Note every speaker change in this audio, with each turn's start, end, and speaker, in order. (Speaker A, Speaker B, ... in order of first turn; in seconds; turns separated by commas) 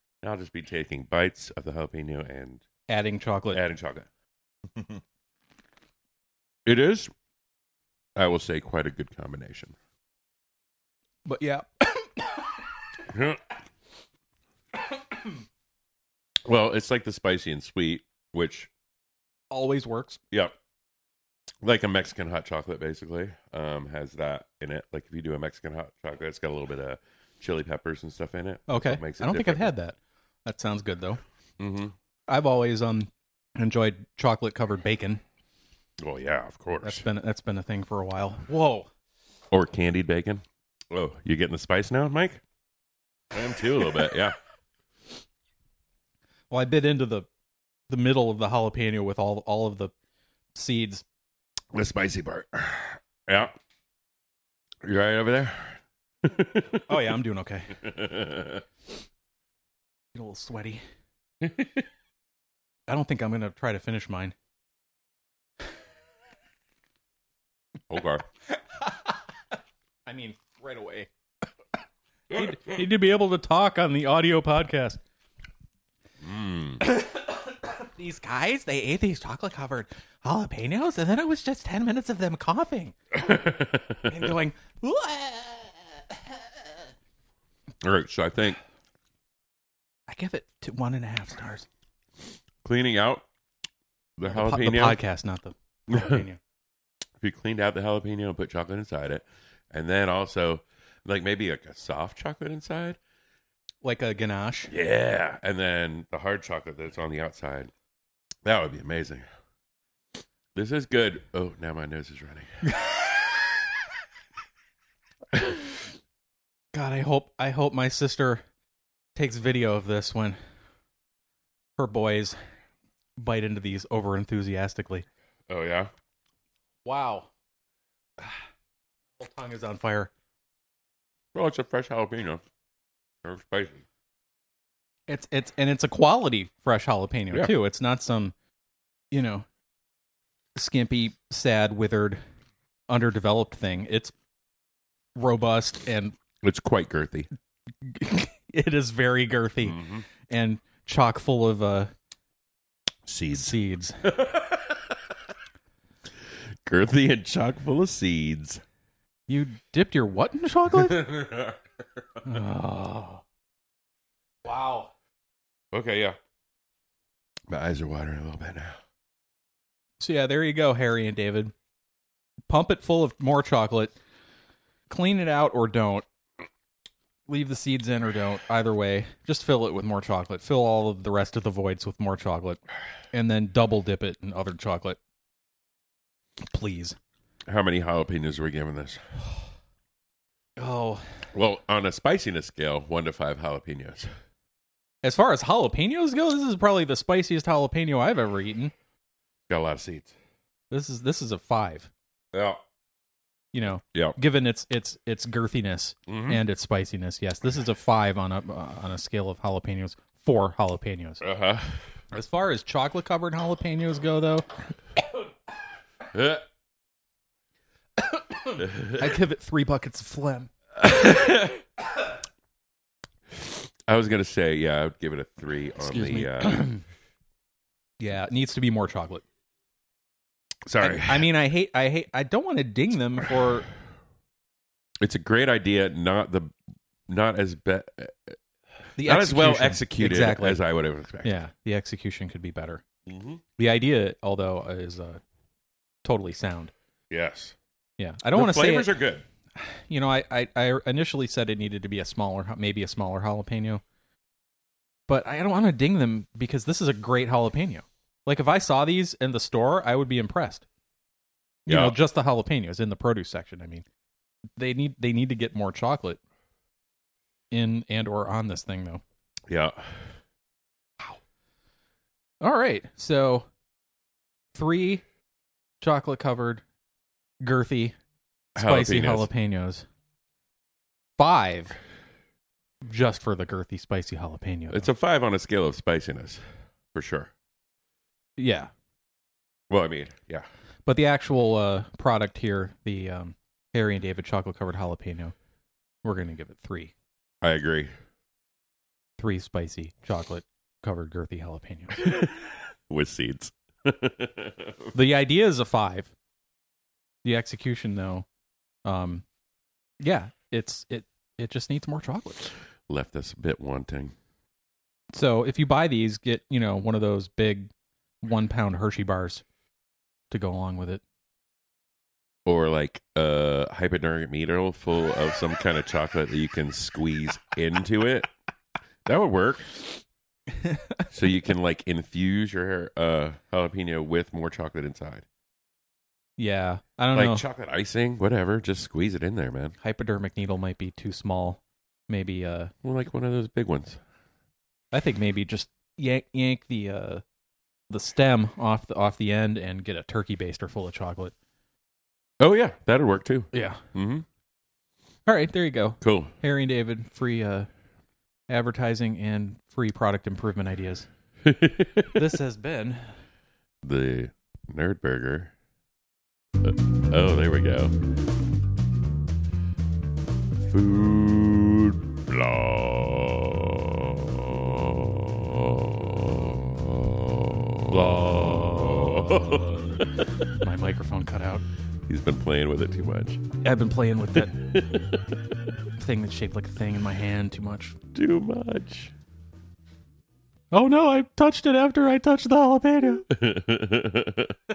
Speaker A: 0.2-2.6, Speaker B: 2.9-3.6, Speaker A: 3.5-4.1, Speaker A: 6.7-7.1, Speaker A: 8.2-9.8, Speaker B: 11.3-12.6, Speaker A: 13.1-13.4, Speaker A: 16.5-18.7, Speaker B: 19.5-20.2, Speaker A: 21.6-29.7, Speaker B: 28.7-31.2, Speaker A: 31.6-31.9, Speaker B: 32.3-35.2, Speaker A: 36.0-37.0, Speaker B: 36.8-38.9, Speaker A: 39.5-42.4, Speaker A: 43.3-44.4, Speaker B: 46.5-47.3, Speaker B: 47.9-49.9, Speaker B: 50.5-51.0, Speaker A: 51.7-53.5, Speaker A: 54.8-56.9, Speaker B: 56.9-57.8, Speaker A: 57.8-58.6, Speaker B: 60.1-60.8, Speaker A: 61.4-61.7, Speaker B: 62.9-64.3, Speaker A: 67.9-68.2, Speaker B: 68.7-69.2, Speaker B: 70.1-71.1, Speaker B: 72.3-75.0, Speaker A: 76.2-76.8, Speaker B: 76.8-83.0, Speaker A: 83.1-84.3, Speaker B: 84.1-86.7, Speaker A: 87.8-88.6, Speaker B: 90.1-91.7, Speaker A: 92.6-93.2, Speaker A: 94.2-95.0, Speaker B: 94.3-96.4, Speaker A: 95.9-96.2, Speaker A: 97.2-103.0, Speaker B: 103.8-104.7, Speaker A: 104.7-107.7, Speaker A: 108.5-109.2, Speaker A: 110.5-112.5, Speaker B: 116.7-118.4, Speaker B: 119.2-120.4, Speaker B: 121.8-122.4, Speaker B: 123.2-125.1, Speaker A: 125.5-125.9, Speaker B: 126.8-127.3, Speaker B: 129.2-130.1, Speaker A: 131.3-132.4, Speaker A: 133.2-133.8, Speaker B: 135.1-138.3, Speaker B: 139.1-139.5, Speaker B: 140.6-142.2, Speaker B: 142.9-144.1, Speaker B: 145.2-146.2, Speaker A: 146.4-147.3, Speaker B: 147.8-151.9, Speaker A: 149.6-150.1, Speaker A: 153.1-153.6, Speaker B: 153.3-154.1, Speaker A: 154.1-154.9, Speaker A: 156.7-158.6, Speaker B: 159.3-161.1, Speaker A: 160.9-161.6, Speaker B: 162.2-163.2, Speaker B: 164.4-164.9, Speaker A: 165.7-166.2, Speaker A: 167.5-168.8, Speaker B: 170.0-171.5, Speaker B: 172.5-174.0, Speaker B: 174.9-176.1, Speaker B: 177.3-182.6, Speaker B: 183.1-185.0, Speaker B: 186.4-187.0, Speaker A: 187.5-189.3, Speaker B: 190.6-191.1, Speaker A: 191.3-194.1, Speaker B: 195.0-198.7, Speaker A: 199.5-200.2, Speaker B: 200.7-201.9, Speaker A: 202.3-202.6, Speaker B: 203.5-211.2, Speaker A: 206.1-206.4, Speaker A: 211.2-211.8, Speaker B: 212.1-214.6, Speaker A: 216.1-216.4, Speaker B: 218.0-220.5, Speaker A: 218.6-219.0, Speaker A: 220.8-221.6, Speaker A: 223.4-226.7, Speaker B: 225.8-226.8, Speaker B: 228.0-229.2, Speaker A: 230.7-231.3, Speaker B: 230.8-233.7, Speaker A: 235.0-236.5, Speaker A: 237.1-238.4, Speaker B: 239.0-240.6, Speaker A: 239.0-241.3, Speaker B: 241.2-242.8, Speaker A: 243.1-243.4, Speaker B: 243.6-245.2, Speaker B: 246.1-246.7, Speaker A: 247.1-247.6, Speaker B: 248.0-248.9, Speaker A: 248.3-249.2, Speaker B: 249.6-253.8, Speaker B: 255.1-260.7, Speaker B: 261.7-263.9, Speaker A: 261.7-262.0, Speaker B: 264.6-266.2, Speaker B: 267.5-269.0, Speaker A: 269.5-270.1, Speaker B: 272.4-273.5, Speaker B: 274.5-275.0, Speaker B: 275.8-276.6, Speaker B: 277.4-278.0, Speaker A: 278.6-279.3, Speaker B: 278.6-279.9, Speaker B: 281.2-281.8, Speaker B: 282.9-284.9, Speaker A: 284.7-286.4, Speaker A: 286.9-287.3, Speaker B: 288.4-288.7, Speaker A: 289.7-290.5, Speaker B: 290.9-295.3, Speaker B: 296.0-296.9, Speaker A: 297.4-297.9, Speaker B: 299.2-302.0, Speaker A: 302.0-304.9, Speaker B: 304.9-306.1, Speaker B: 307.2-308.3, Speaker B: 308.9-309.2, Speaker B: 310.0-312.5, Speaker A: 312.9-314.1, Speaker B: 315.1-317.7, Speaker B: 318.2-319.4, Speaker B: 320.3-321.0, Speaker A: 322.5-328.3, Speaker A: 329.1-329.8, Speaker B: 330.6-330.9, Speaker A: 331.1-335.3, Speaker B: 336.4-337.4, Speaker A: 337.1-339.8, Speaker B: 339.8-342.7, Speaker A: 342.8-344.0, Speaker B: 344.9-347.2, Speaker B: 347.9-351.3, Speaker A: 352.4-354.3, Speaker B: 353.5-353.8, Speaker B: 355.3-357.7, Speaker A: 356.0-356.3, Speaker B: 358.5-361.1, Speaker A: 361.4-362.1, Speaker B: 362.1-363.1, Speaker A: 363.8-365.5, Speaker A: 366.6-367.9, Speaker A: 370.7-380.5, Speaker B: 377.9-380.0, Speaker B: 380.6-381.6, Speaker A: 382.1-383.4, Speaker B: 383.6-384.6, Speaker A: 384.4-385.3, Speaker B: 386.0-388.0, Speaker A: 388.1-389.1, Speaker B: 390.7-393.3, Speaker A: 393.3-394.6